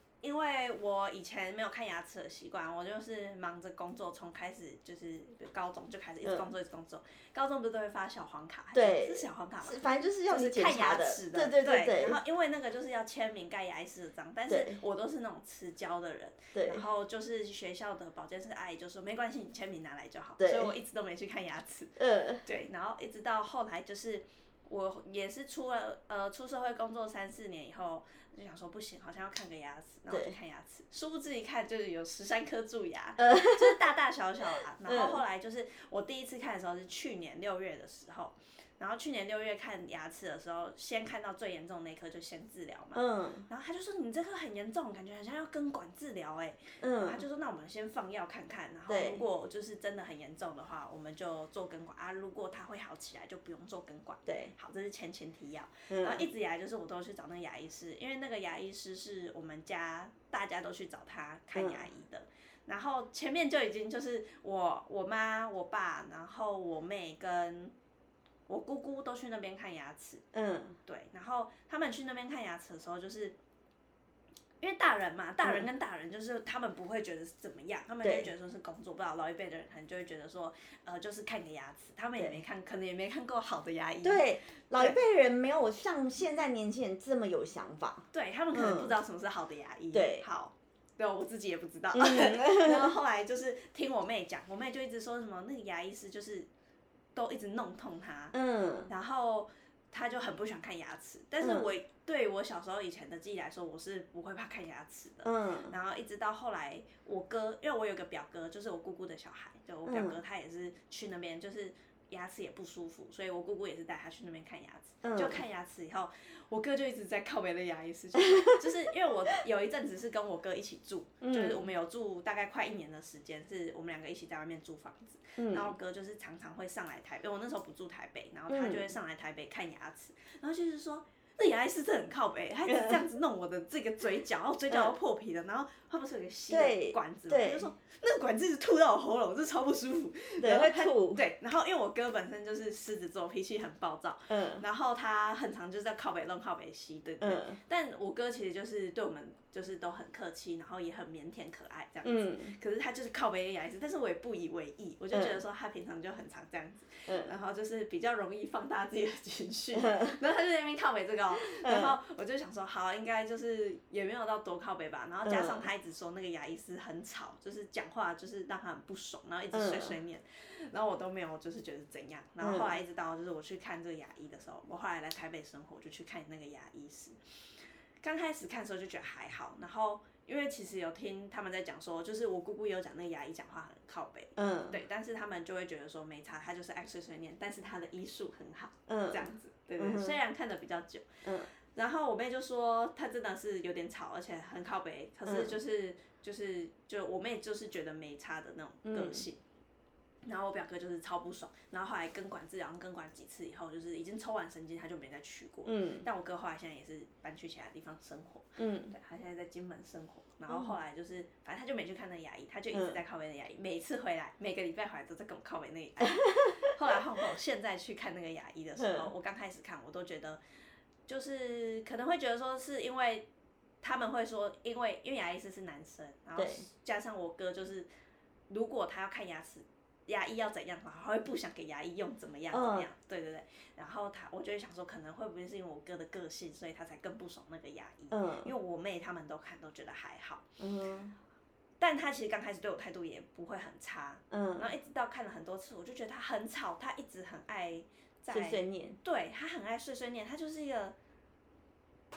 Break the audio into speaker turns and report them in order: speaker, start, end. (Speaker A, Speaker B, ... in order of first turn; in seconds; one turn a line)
Speaker A: 0.2-67.7
Speaker B: 6.2-6.5
Speaker B: 8.7-12.2
Speaker B: 14.5-14.8
Speaker B: 16.6-16.8
Speaker B: 20.4-20.7
Speaker B: 22.0-22.4
Speaker B: 30.1-30.4
Speaker B: 33.2-33.8
Speaker B: 34.9-35.2
Speaker B: 43.0-43.5
Speaker B: 46.8-47.2
Speaker B: 48.9-49.2
Speaker B: 54.3-54.5
Speaker B: 55.9-56.3
Speaker B: 61.5-61.9
Speaker A: 68.5-70.2
Speaker B: 70.3-70.8
Speaker A: 70.9-73.4
Speaker A: 74.6-85.0
Speaker B: 78.0-78.3
Speaker B: 84.0-88.9
Speaker A: 88.1-96.5
Speaker B: 89.9-90.2
Speaker B: 91.9-92.9
Speaker A: 97.2-98.4
Speaker B: 98.3-98.9
Speaker A: 98.9-177.2
Speaker B: 101.4-101.7
Speaker B: 105.2-105.7
Speaker B: 109.8-110.2
Speaker B: 115.0-115.4
Speaker B: 118.3-118.5
Speaker B: 121.2-121.7
Speaker B: 125.4-125.8
Speaker B: 128.5-128.9
Speaker B: 132.7-133.0
Speaker B: 134.7-135.0
Speaker B: 136.5-137.7
Speaker B: 140.4-141.2
Speaker B: 144.3-144.6
Speaker B: 147.2-147.6
Speaker B: 152.0-152.6
Speaker B: 155.1-155.4
Speaker B: 157.1-157.3
Speaker B: 159.8-160.2
Speaker B: 161.4-161.9
Speaker B: 165.2-165.7
Speaker B: 169.5-169.9
Speaker B: 172.4-172.7
Speaker A: 178.0-191.1
Speaker B: 184.4-184.8
Speaker B: 188.9-190.2
Speaker B: 191.2-191.5
Speaker A: 191.7-199.4
Speaker B: 195.3-195.6
Speaker B: 198.8-199.2
Speaker A: 200.2-220.4
Speaker B: 205.7-206.1
Speaker B: 208.6-208.9
Speaker B: 212.7-213.0
Speaker B: 216.1-216.7
Speaker B: 218.8-219.1
Speaker A: 221.1-223.3
Speaker A: 223.8-227.9
Speaker B: 226.4-226.7
Speaker A: 228.5-240.4
Speaker B: 232.5-232.9
Speaker B: 238.1-238.5
Speaker B: 240.6-241.2
Speaker A: 241.8-250.9
Speaker B: 244.3-244.7
Speaker B: 248.3-249.0